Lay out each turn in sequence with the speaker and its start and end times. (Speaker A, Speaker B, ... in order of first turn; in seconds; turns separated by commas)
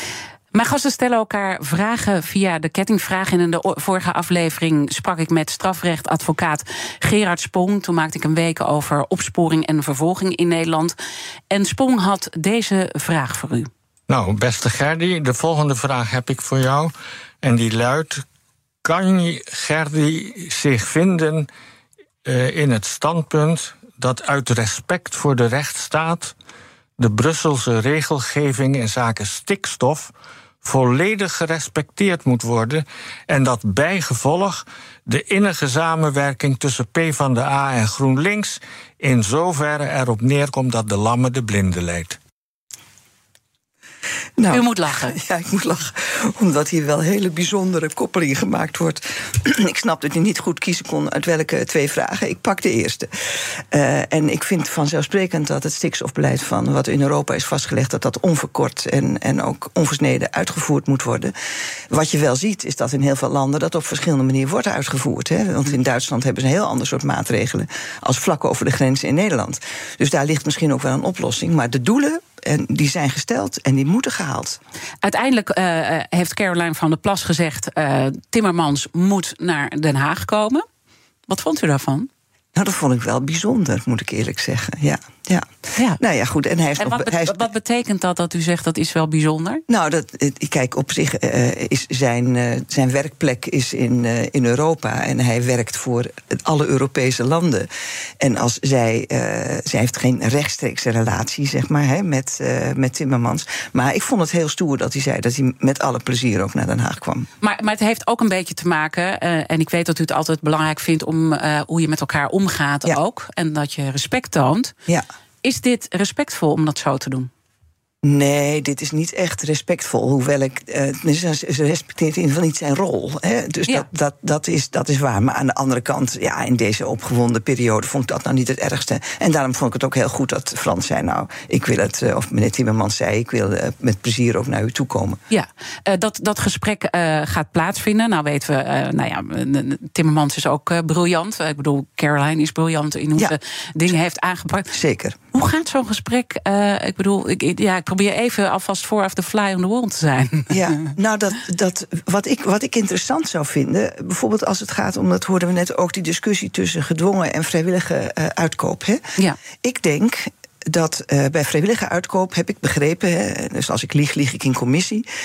Speaker A: 0.5-10.9, Speaker A: 11.5-13.7, Speaker B: 14.1-18.2, Speaker B: 18.8-21.5, Speaker B: 22.2-26.3, Speaker B: 27.0-42.2, Speaker C: 44.4-61.3, Speaker A: 44.5-45.2, Speaker C: 61.9-74.6, Speaker A: 75.0-80.6, Speaker A: 81.3-82.1, Speaker C: 82.5-87.5, Speaker A: 86.8-89.6, Speaker C: 89.7-97.7, Speaker C: 98.2-107.3, Speaker A: 107.4-114.7, Speaker A: 115.4-117.3, Speaker C: 118.0-135.2, Speaker A: 135.3-144.7, Speaker C: 144.7-145.2, Speaker A: 145.3-150.6, Speaker C: 150.5-165.0